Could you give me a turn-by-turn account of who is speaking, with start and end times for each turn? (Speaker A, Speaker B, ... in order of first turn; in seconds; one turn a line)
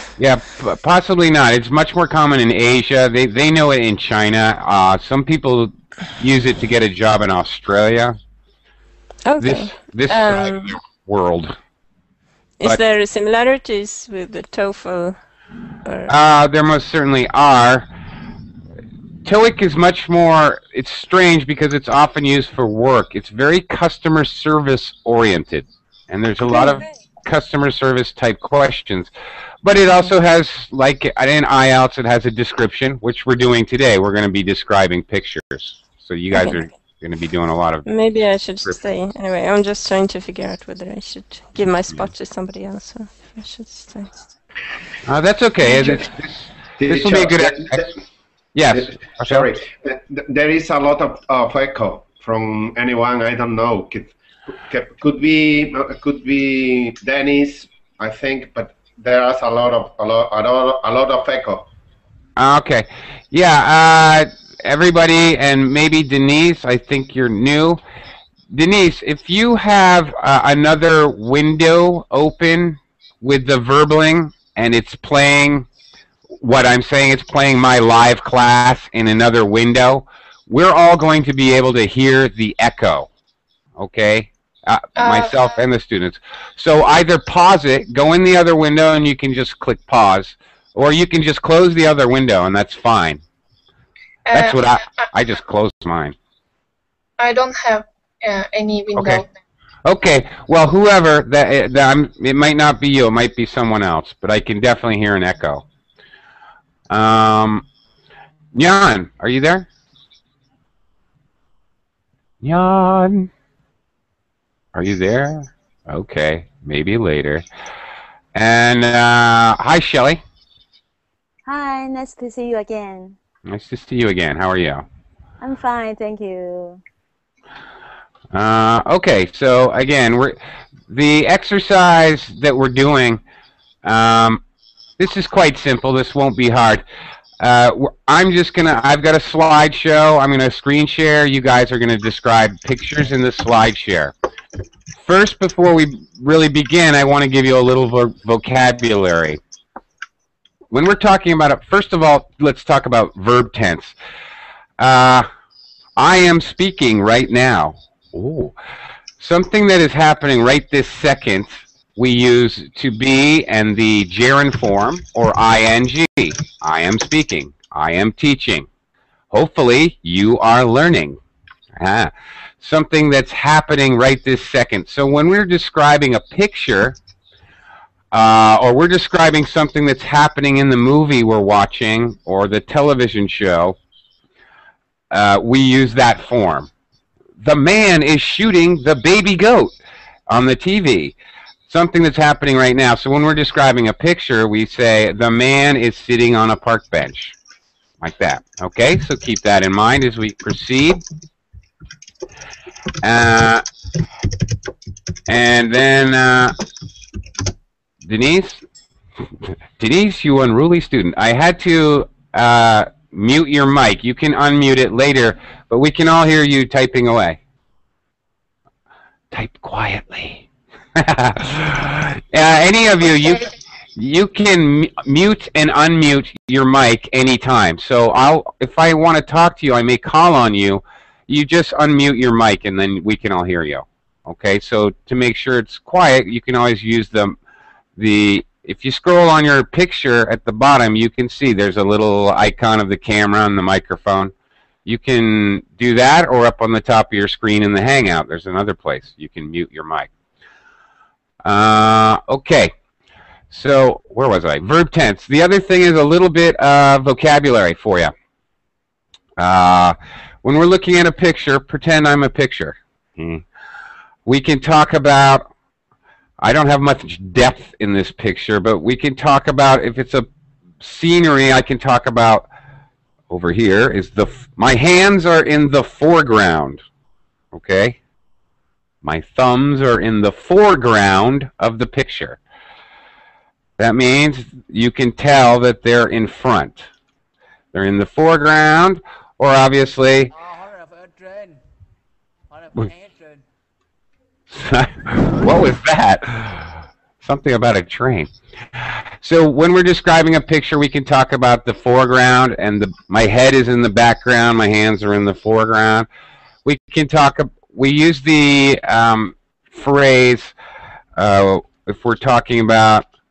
Speaker A: 0.2-8.2
Speaker B: 9.2-10.8
Speaker A: 9.4-11.5
Speaker B: 12.6-15.2
Speaker B: 15.8-16.1
Speaker A: 16.1-17.9
Speaker A: 19.2-29.1
Speaker B: 26.4-26.8
Speaker A: 29.6-37.9
Speaker B: 36.3-36.6
Speaker B: 37.8-44.2
Speaker A: 45.0-47.9
Speaker B: 45.6-46.0
Speaker C: 46.8-48.0
Speaker A: 48.5-49.5
Speaker C: 48.7-54.1
Speaker C: 54.6-61.6
Speaker A: 62.4-67.8
Speaker A: 68.5-75.7
Speaker A: 76.4-83.1
Speaker A: 83.8-93.2
Speaker D: 85.0-85.6
Speaker D: 94.3-94.9
Speaker A: 94.3-96.1
Speaker D: 97.2-99.3
Speaker A: 98.9-99.2
Speaker A: 99.8-105.6
Speaker A: 106.9-107.6
Speaker A: 108.5-109.7
Speaker A: 112.4-113.3
Speaker A: 114.7-117.4
Speaker A: 118.3-120.2
Speaker E: 121.5-123.2
Speaker A: 123.5-124.8
Speaker E: 125.4-126.8
Speaker A: 128.3-130.4
Speaker A: 130.9-133.2
Speaker A: 133.8-134.4
Speaker A: 135.0-136.8
Speaker A: 137.4-144.1
Speaker A: 145.0-149.4
Speaker A: 150.7-153.9
Speaker A: 154.8-155.3
Speaker A: 156.0-158.5
Speaker A: 159.2-168.7
Speaker A: 169.3-171.2
Speaker A: 171.8-177.0
Speaker A: 178.1-183.8
Speaker A: 185.1-186.7
Speaker A: 187.4-189.7
Speaker A: 190.3-191.1
Speaker A: 191.7-197.3
Speaker A: 198.0-201.0
Speaker A: 203.0-203.6
Speaker A: 205.3-206.6
Speaker A: 208.1-208.6
Speaker A: 209.8-217.4
Speaker A: 219.3-220.4
Speaker A: 220.9-237.3
Speaker A: 238.0-244.3
Speaker A: 244.8-250.1
Speaker A: 251.4-252.7
Speaker A: 253.5-258.1
Speaker A: 259.4-263.4
Speaker A: 264.2-265.5
Speaker A: 266.4-270.3
Speaker A: 270.8-272.5
Speaker A: 273.3-276.8
Speaker A: 277.5-278.0
Speaker A: 279.0-282.4
Speaker A: 283.8-286.9
Speaker A: 287.7-290.3
Speaker A: 294.5-306.1
Speaker A: 306.6-310.5
Speaker A: 311.2-313.1